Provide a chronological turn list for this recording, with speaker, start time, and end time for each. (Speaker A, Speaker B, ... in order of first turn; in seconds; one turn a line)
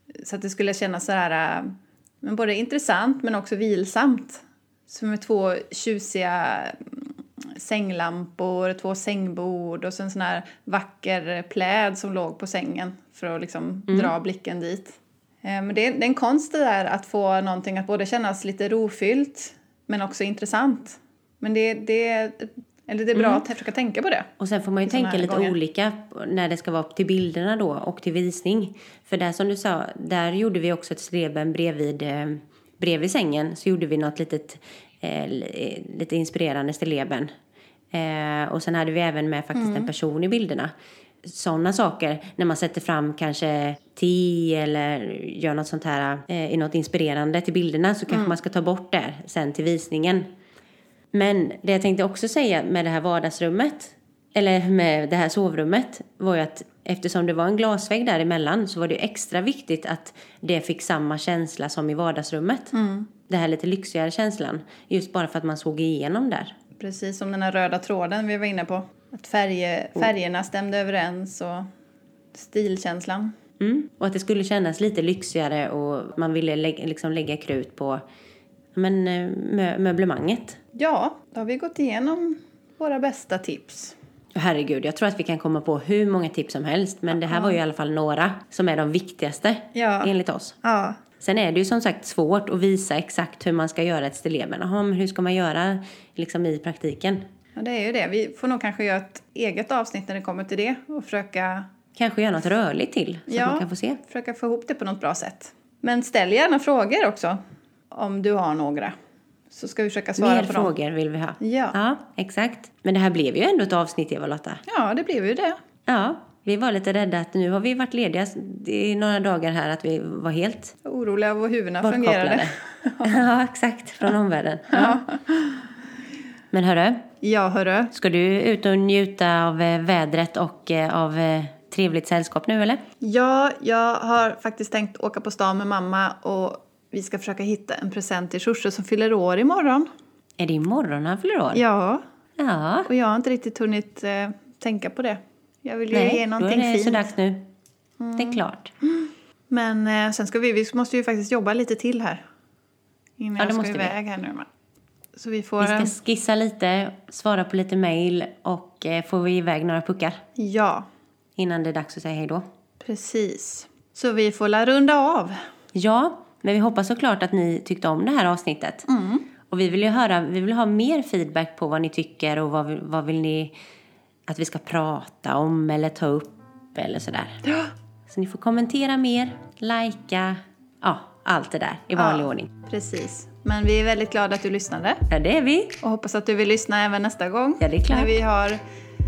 Speaker A: 0.2-24.3
Speaker B: 23.1-23.4
Speaker B: 24.4-37.3
Speaker A: 24.9-25.6
Speaker B: 37.9-40.7
Speaker A: 39.5-39.9
Speaker B: 41.2-50.3
Speaker B: 51.1-62.7
Speaker A: 62.7-63.1
Speaker B: 63.3-66.5
Speaker A: 66.8-71.7
Speaker A: 72.3-73.3
Speaker B: 73.6-78.0
Speaker B: 78.8-80.6
Speaker A: 80.7-84.0
Speaker B: 84.3-90.6
Speaker A: 87.2-87.6
Speaker A: 89.8-91.0
Speaker B: 91.2-97.2
Speaker A: 97.6-101.7
Speaker B: 102.0-104.0
Speaker A: 103.3-107.4
Speaker A: 107.9-109.0
Speaker A: 109.5-110.7
Speaker B: 110.2-114.6
Speaker A: 111.4-111.8
Speaker A: 114.7-115.6
Speaker B: 115.9-120.8
Speaker A: 120.8-123.2
Speaker B: 121.8-125.0
Speaker A: 124.7-125.6
Speaker B: 126.5-127.0
Speaker A: 127.2-127.9
Speaker B: 127.9-132.8
Speaker A: 133.0-139.9
Speaker B: 140.4-141.6
Speaker A: 141.5-142.0
Speaker B: 142.4-142.9
Speaker A: 142.9-147.1
Speaker B: 145.9-147.5
Speaker A: 148.0-152.2
Speaker B: 148.2-148.7
Speaker A: 153.2-154.5
Speaker B: 153.4-153.9
Speaker A: 155.2-155.9
Speaker B: 155.6-160.2
Speaker A: 160.4-160.9
Speaker B: 161.4-162.5
Speaker A: 162.8-165.4
Speaker B: 165.7-168.9
Speaker A: 168.9-169.3
Speaker B: 169.5-173.5
Speaker B: 174.3-177.4
Speaker B: 178.1-182.5
Speaker A: 181.9-185.0
Speaker B: 185.1-185.8
Speaker A: 185.8-188.6
Speaker B: 187.6-188.1